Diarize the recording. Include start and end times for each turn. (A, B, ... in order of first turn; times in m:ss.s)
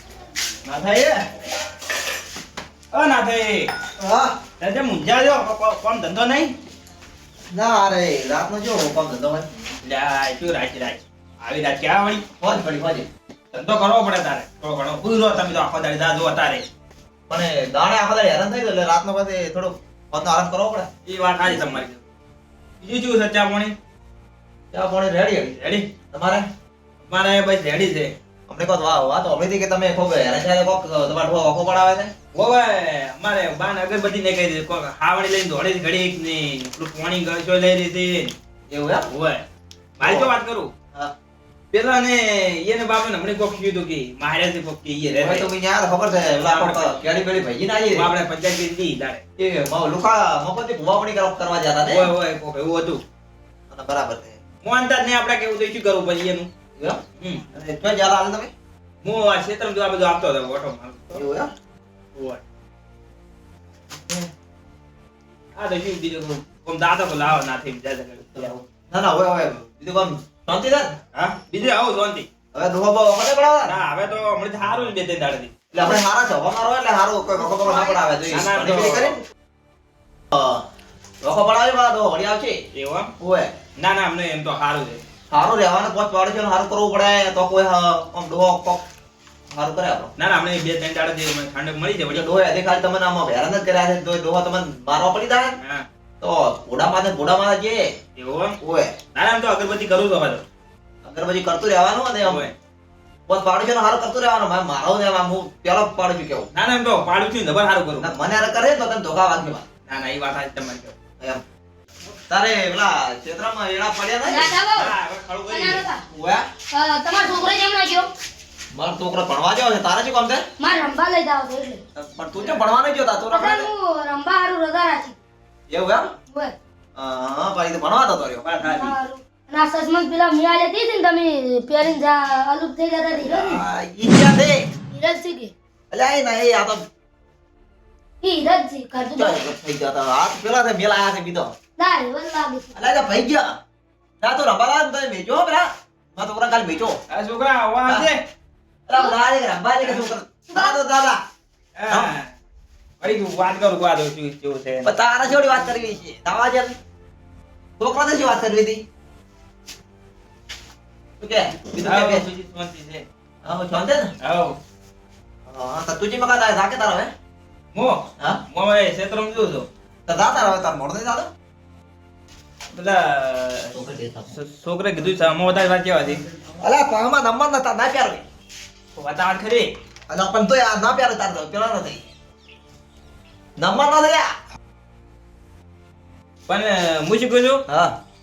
0:00.6-0:01.2 A
0:02.9-0:03.7 A
0:04.0-0:04.4 B
0:04.6-0:06.5 A
0:07.5-0:09.5 B
0:09.8-0:12.2 A
0:12.4-0:13.1 B
0:13.5-0:16.6 A
0:17.3-0:20.9 B
0:21.1-0:22.0 A
0:21.4-0:21.8 B
0:22.8-0:23.8 A
0:24.7-0:25.6 B
0:25.5-0:25.9 A
0:26.1-0:26.5 B
0:27.1-0:28.1 A
0:28.5-0:32.1 B
0:32.3-0:38.3 A
0:38.7-0:39.1 B
0:39.1-0:39.4 A
0:40.0-0:40.7 A
0:40.0-0:40.4 B
0:41.7-0:45.5 A
0:45.1-0:48.1 B
0:46.4-0:47.0 A
0:47.9-0:49.2 A
0:49.4-0:52.1 B
0:51.9-0:53.0 A
0:53.7-0:54.4 B
0:54.6-0:56.5 A
0:57.5-0:58.5 B
0:59.0-1:01.2 A
1:01.1-1:01.5 B
1:02.2-1:02.4 A
1:03.9-1:04.3 B
1:05.6-1:08.5 A
1:08.3-1:10.9 B
1:11.1-1:12.3 A
1:12.5-1:13.8 B
1:13.6-1:15.6 A
1:15.7-1:19.2 B
1:18.3-1:19.2 A
1:20.3-1:20.6 B
1:21.2-1:22.6 B
1:22.7-1:23.1 A
1:23.2-1:23.5 B
1:23.8-1:25.0 A
1:25.3-1:28.8 B
1:29.5-1:30.1 B
1:30.2-1:32.3 A
1:32.1-1:35.6 B
1:35.6-1:35.9 A
1:36.2-1:37.9 B
1:38.2-1:38.6 A
1:38.6-1:38.9 B
1:39.1-1:40.4 A
1:41.0-1:42.5 B
1:42.2-1:42.5 A
1:43.3-1:46.5 B
1:46.5-1:48.1 A
1:48.0-1:49.6 B
1:49.9-1:50.9 A
1:52.3-1:54.5 B
1:54.3-1:54.9 C
1:54.8-1:55.8 A
1:55.5-1:56.0 C
1:56.1-1:56.5 B
1:56.7-1:58.1 C
1:58.7-2:00.4 B
2:00.6-2:01.8 C
2:02.0-2:03.7 B
2:03.3-2:05.2 C
2:05.7-2:06.0 B
2:07.0-2:08.4 B
2:08.4-2:09.0 A
2:08.8-2:13.5 C
2:13.2-2:14.7 B
2:14.9-2:15.5 C
2:15.9-2:16.8 B
2:18.2-2:19.4 C
2:19.2-2:21.5 B
2:21.8-2:22.9 C
2:22.8-2:23.5 B
2:24.2-2:27.0 B
2:27.1-2:28.2 A
2:28.9-2:31.2 B
2:31.8-2:32.3 A
2:33.0-2:35.5 A
2:34.8-2:36.8 B
2:37.8-2:38.8 B
2:41.2-2:42.3 B
2:41.8-2:43.1 A
2:43.4-2:44.1 B
2:44.2-2:44.6 A
2:45.5-2:47.1 B
2:47.7-2:49.7 A
2:50.1-2:51.3 B
2:52.7-2:53.7 A
2:53.7-2:54.3 B
2:54.3-2:56.2 A
2:56.6-2:58.2 B
2:59.0-2:59.7 A
3:00.1-3:02.1 B
3:03.6-3:04.3 B
3:06.5-3:07.6 A
3:07.7-3:07.9 B